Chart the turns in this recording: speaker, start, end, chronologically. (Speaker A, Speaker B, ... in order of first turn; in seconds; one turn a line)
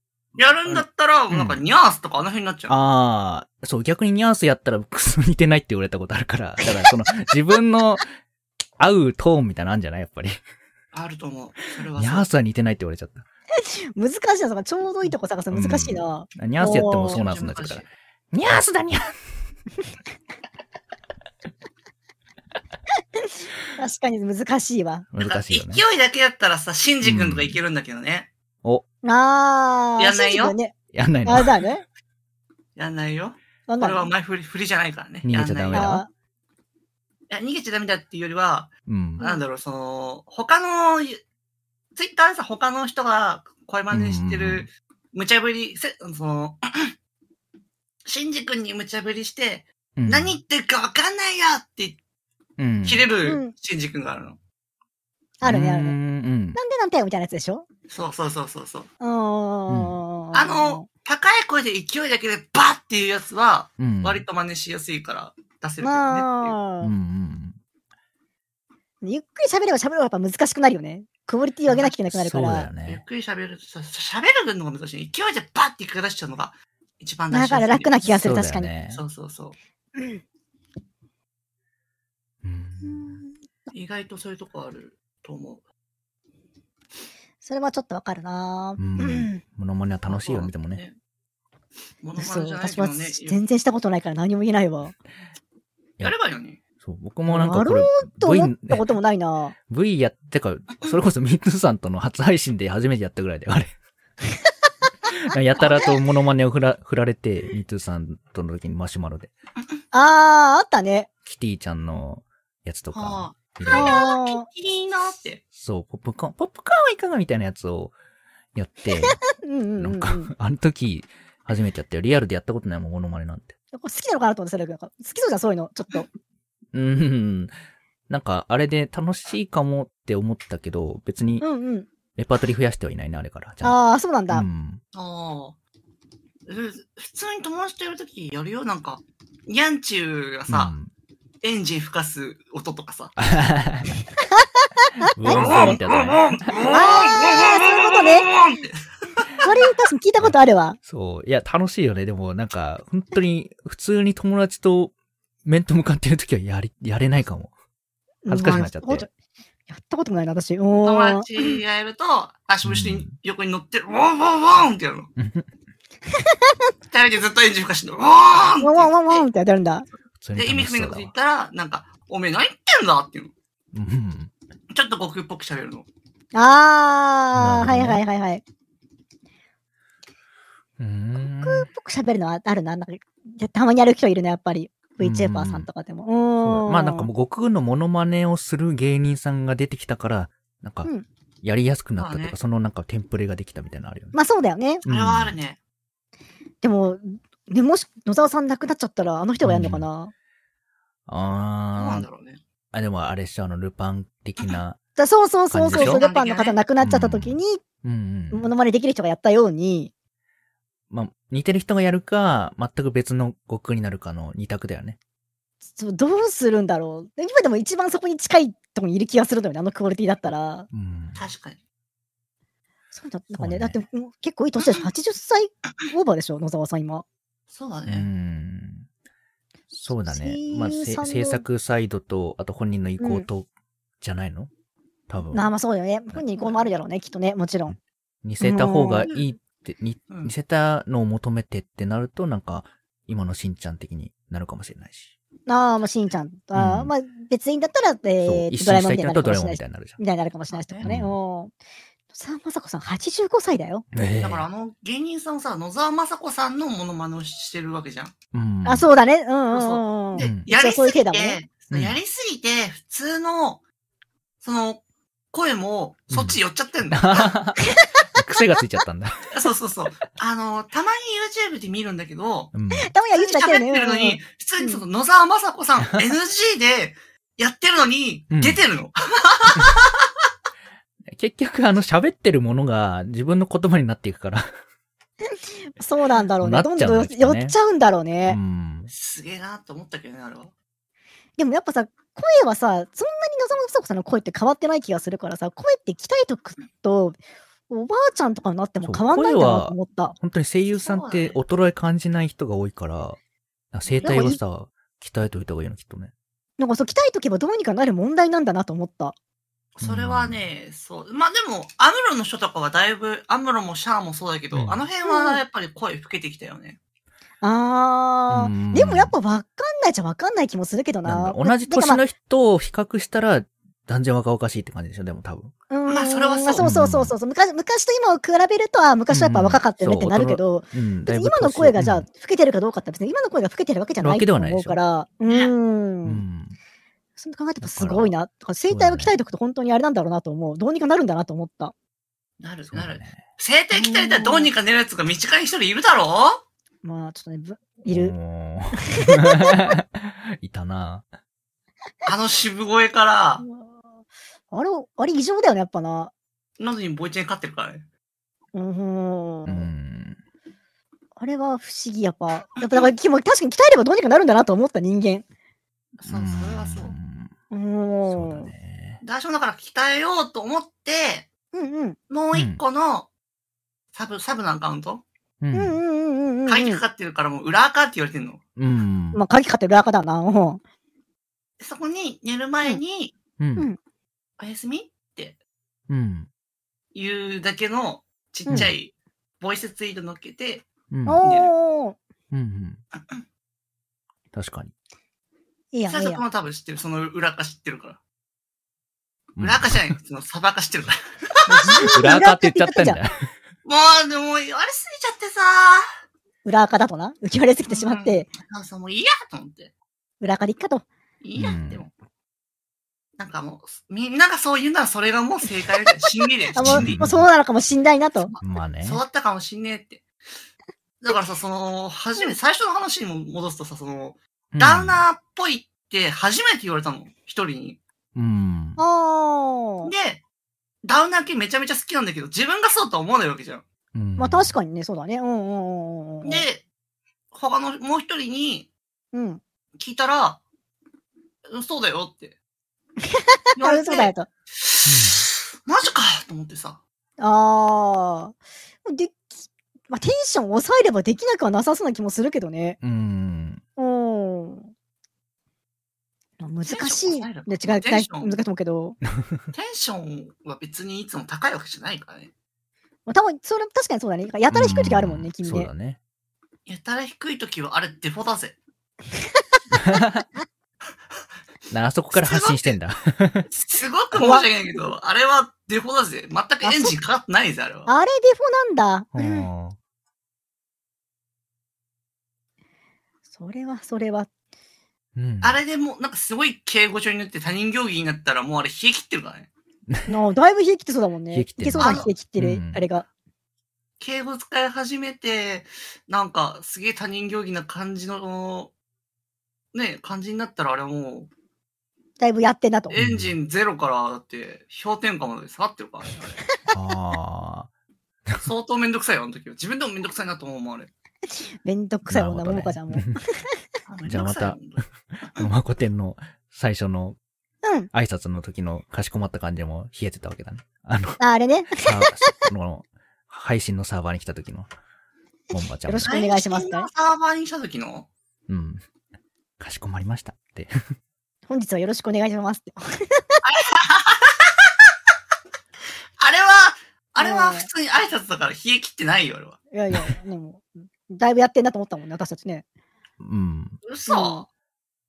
Speaker A: 0.4-2.8
Speaker B: 0.7-1.6
Speaker B: 2.7-8.1
Speaker B: 8.8-10.4
Speaker A: 10.9-12.3
Speaker B: 12.0-13.2
Speaker C: 13.9-17.2
Speaker B: 15.5-19.2
Speaker A: 17.1-17.9
Speaker C: 23.2-25.1
Speaker B: 25.1-25.8
Speaker A: 25.2-28.3
Speaker B: 27.0-27.6
Speaker C: 29.0-31.9
Speaker A: 30.0-30.6
Speaker B: 30.9-31.6
Speaker A: 32.8-36.0
Speaker C: 33.7-34.1
Speaker B: 35.2-36.1
Speaker C: 35.7-36.1
Speaker A: 37.3-41.2
Speaker B: 38.9-39.2
Speaker A: 42.0-46.9
Speaker B: 43.9-44.7
Speaker A: 48.1-52.0
Speaker B: 50.0-50.4
Speaker B: 52.6-53.1
Speaker A: 52.8-54.4
Speaker C: 53.2-53.5
Speaker C: 55.4-56.0
Speaker B: 55.4-56.6
Speaker C: 56.5-57.7
Speaker A: 57.9-58.9
Speaker C: 59.0-60.9
Speaker B: 59.7-60.0
Speaker A: 60.3-66.6
Speaker B: 63.8-64.2
Speaker C: 65.8-66.9
Speaker B: 66.8-67.6
Speaker C: 69.0-72.7
Speaker A: 71.7-72.0
Speaker B: 72.1-73.0
Speaker A: 72.9-78.1
Speaker C: 77.3-78.7
Speaker B: 78.0-79.0
Speaker A: 78.9-79.6
Speaker C: 80.0-80.2
Speaker B: 82.4-83.2
Speaker C: 82.8-83.3
Speaker A: 83.7-85.6
Speaker C: 87.4-89.4
Speaker B: 88.8-90.8
Speaker A: 90.1-91.0
Speaker A: 92.0-93.4
Speaker C: 92.2-95.0
Speaker A: 96.0-96.6
Speaker B: 96.8-98.9
Speaker C: 97.3-99.5
Speaker B: 99.7-103.7
Speaker B: 105.1-109.3
Speaker A: 105.6-105.8
Speaker C: 109.9-111.1
Speaker B: 111.2-114.0
Speaker A: 112.9-115.4
Speaker C: 113.7-114.5
Speaker B: 115.5-118.0
Speaker B: 118.5-119.2
Speaker C: 119.1-120.3
Speaker B: 119.8-123.5
Speaker C: 123.7-126.1
Speaker B: 126.7-127.5
Speaker B: 128.1-131.5
Speaker C: 131.4-131.9
Speaker B: 132.2-134.8
Speaker C: 133.6-134.4
Speaker A: 134.9-135.6
Speaker A: 136.5-140.7
Speaker B: 140.5-140.9
Speaker A: 141.4-143.2
Speaker B: 143.2-144.0
Speaker C: 144.4-145.8
Speaker B: 145.1-146.8
Speaker A: 145.3-149.3
Speaker C: 146.7-148.3
Speaker C: 149.4-150.8
Speaker B: 150.2-154.9
Speaker B: 155.4-157.5
Speaker C: 158.2-159.1
Speaker B: 158.3-159.1
Speaker C: 159.7-161.6
Speaker A: 160.7-165.1
Speaker B: 162.6-163.1
Speaker B: 165.2-165.5
Speaker A: 166.9-169.3
Speaker C: 168.6-169.9
Speaker B: 170.2-171.1
Speaker A: 170.3-173.3
Speaker B: 173.7-174.3
Speaker A: 174.7-175.9
Speaker C: 176.3-178.4
Speaker B: 177.4-178.0
Speaker B: 180.8-181.7
Speaker C: 181.2-187.1
Speaker B: 185.0-185.7
Speaker B: 186.4-190.9
Speaker B: 191.4-194.1
Speaker A: 192.0-192.4
Speaker C: 194.1-194.8
Speaker B: 194.8-195.3
Speaker A: 194.9-195.6
Speaker C: 196.6-200.1
Speaker B: 199.4-199.9
Speaker B: 201.1-202.1
Speaker A: 201.8-202.4
Speaker B: 202.7-204.8
Speaker C: 205.0-207.6
Speaker B: 205.5-206.0
Speaker A: 205.7-206.6
Speaker B: 206.8-208.5
Speaker C: 208.3-209.9
Speaker B: 210.9-215.0
Speaker C: 215.7-220.7
Speaker B: 220.7-221.2
Speaker A: 221.2-221.6
Speaker C: 222.9-227.1
Speaker B: 223.3-223.8
Speaker A: 227.5-228.1
Speaker B: 227.9-228.9
Speaker B: 229.7-233.5
Speaker C: 230.0-231.4
Speaker C: 233.0-233.3
Speaker B: 234.0-234.5
Speaker B: 235.1-235.5
Speaker C: 235.3-237.8
Speaker B: 238.2-245.1
Speaker C: 238.4-239.1
Speaker C: 245.5-251.5
Speaker B: 246.6-246.9
Speaker B: 248.2-250.0
Speaker A: 250.5-250.9
Speaker B: 250.8-251.2
Speaker C: 252.1-253.9
Speaker B: 253.9-254.5
Speaker A: 254.2-258.1
Speaker B: 258.3-258.9
Speaker C: 258.7-261.4
Speaker A: 259.5-263.6
Speaker B: 260.2-260.5
Speaker A: 264.4-267.3
Speaker B: 266.1-266.4
Speaker B: 266.9-269.3
Speaker A: 269.3-272.5
Speaker B: 272.5-272.9
Speaker C: 272.8-274.8
Speaker A: 273.1-280.0
Speaker B: 278.3-278.6
Speaker B: 281.1-284.5
Speaker C: 285.3-288.4
Speaker B: 286.4-287.6
Speaker B: 288.3-288.9
Speaker A: 288.9-290.5
Speaker C: 291.4-300.2
Speaker B: 298.8-303.2
Speaker A: 300.7-301.4
Speaker B: 303.7-306.1
Speaker A: 303.9-304.2
Speaker C: 304.0-304.4
Speaker C: 306.6-309.2
Speaker A: 309.8-316.8
Speaker B: 309.8-310.4
Speaker B: 314.5-314.9
Speaker C: 315.1-315.4
Speaker C: 317.4-322.0
Speaker B: 318.3-319.1
Speaker B: 321.1-325.5
Speaker C: 325.7-336.2
Speaker A: 325.9-326.7
Speaker B: 326.6-327.2
Speaker B: 329.1-332.1
Speaker B: 334.0-334.8
Speaker A: 335.3-335.5
Speaker B: 336.1-336.6
Speaker C: 337.2-341.7
Speaker B: 337.6-338.1
Speaker B: 338.7-339.1
Speaker A: 342.4-346.4
Speaker B: 342.7-343.2
Speaker C: 343.7-344.5
Speaker C: 346.8-348.1
Speaker B: 347.9-351.1
Speaker C: 349.0-349.8
Speaker A: 352.1-353.5
Speaker C: 353.4-353.8
Speaker C: 354.5-356.1
Speaker A: 356.6-357.9
Speaker C: 358.5-359.7
Speaker B: 359.5-360.2
Speaker C: 361.2-365.2
Speaker A: 362.6-362.9
Speaker B: 366.0-367.3
Speaker A: 366.0-366.9
Speaker C: 367.5-368.5
Speaker B: 368.1-369.0
Speaker A: 369.0-371.3
Speaker C: 371.5-372.0
Speaker A: 372.1-373.1
Speaker B: 372.3-372.6
Speaker A: 373.9-375.0
Speaker B: 375.4-375.8
Speaker C: 375.5-376.8
Speaker A: 376.5-378.4
Speaker B: 378.6-379.2
Speaker C: 379.1-380.6
Speaker A: 381.6-383.1
Speaker B: 383.4-383.7
Speaker A: 384.4-385.4
Speaker B: 385.9-386.3
Speaker A: 386.9-390.7
Speaker C: 388.5-388.7
Speaker B: 388.5-388.7
Speaker B: 390.9-391.2
Speaker C: 391.1-392.0
Speaker A: 391.2-391.5
Speaker B: 392.3-392.8
Speaker B: 394.3-394.7
Speaker C: 395.7-396.2
Speaker A: 395.9-398.0
Speaker B: 399.4-399.9
Speaker A: 399.4-401.9
Speaker C: 401.5-403.0
Speaker B: 401.5-403.3
Speaker A: 403.6-405.8
Speaker C: 406.4-408.3
Speaker A: 407.7-409.7
Speaker C: 410.2-410.9
Speaker A: 411.2-411.9
Speaker B: 411.4-411.9
Speaker A: 413.2-417.0
Speaker C: 416.5-418.3
Speaker B: 416.6-417.3
Speaker A: 418.2-420.1
Speaker B: 418.4-419.0
Speaker A: 421.0-427.8
Speaker B: 424.5-425.0
Speaker B: 428.1-428.8
Speaker C: 428.8-429.9
Speaker A: 429.8-430.2
Speaker A: 430.8-433.6
Speaker B: 433.9-434.5
Speaker C: 434.2-436.5
Speaker A: 436.2-436.7
Speaker A: 437.3-438.7
Speaker C: 439.1-439.4
Speaker A: 439.8-440.4
Speaker A: 441.5-442.4
Speaker C: 443.0-444.3
Speaker A: 443.6-446.8
Speaker B: 444.9-445.2
Speaker C: 447.2-452.8
Speaker B: 452.8-453.6
Speaker C: 453.8-454.7
Speaker C: 456.4-459.0
Speaker A: 456.6-458.4
Speaker A: 459.5-462.3
Speaker C: 463.1-465.7
Speaker B: 464.5-466.0
Speaker A: 466.7-468.6
Speaker C: 469.2-469.6
Speaker B: 469.7-470.2
Speaker B: 471.7-473.5
Speaker A: 472.1-472.8
Speaker A: 473.5-477.9
Speaker C: 474.1-474.5
Speaker C: 476.6-477.0
Speaker C: 477.9-479.5
Speaker B: 479.1-479.8
Speaker C: 483.3-484.3
Speaker B: 485.2-485.6
Speaker A: 485.4-489.5
Speaker C: 490.1-493.1
Speaker B: 491.3-492.9
Speaker A: 491.8-492.1
Speaker A: 494.0-498.7
Speaker A: 499.7-501.3
Speaker C: 502.2-503.0
Speaker A: 502.9-506.4
Speaker B: 503.0-503.4
Speaker B: 506.7-507.7
Speaker A: 508.4-510.9
Speaker C: 511.6-513.1
Speaker B: 512.1-513.2
Speaker A: 513.9-514.8
Speaker B: 514.0-514.7
Speaker B: 515.3-517.2
Speaker C: 517.6-517.9
Speaker B: 517.9-521.2
Speaker C: 521.2-522.4
Speaker B: 521.8-524.7
Speaker B: 525.5-526.1
Speaker C: 525.8-526.9
Speaker A: 526.0-528.1
Speaker B: 528.5-528.8
Speaker B: 529.6-530.7
Speaker C: 531.5-533.2
Speaker A: 533.4-534.5
Speaker A: 536.2-539.6
Speaker C: 537.2-537.7
Speaker C: 539.7-542.6
Speaker B: 543.2-543.8
Speaker A: 543.8-544.5
Speaker C: 544.1-544.5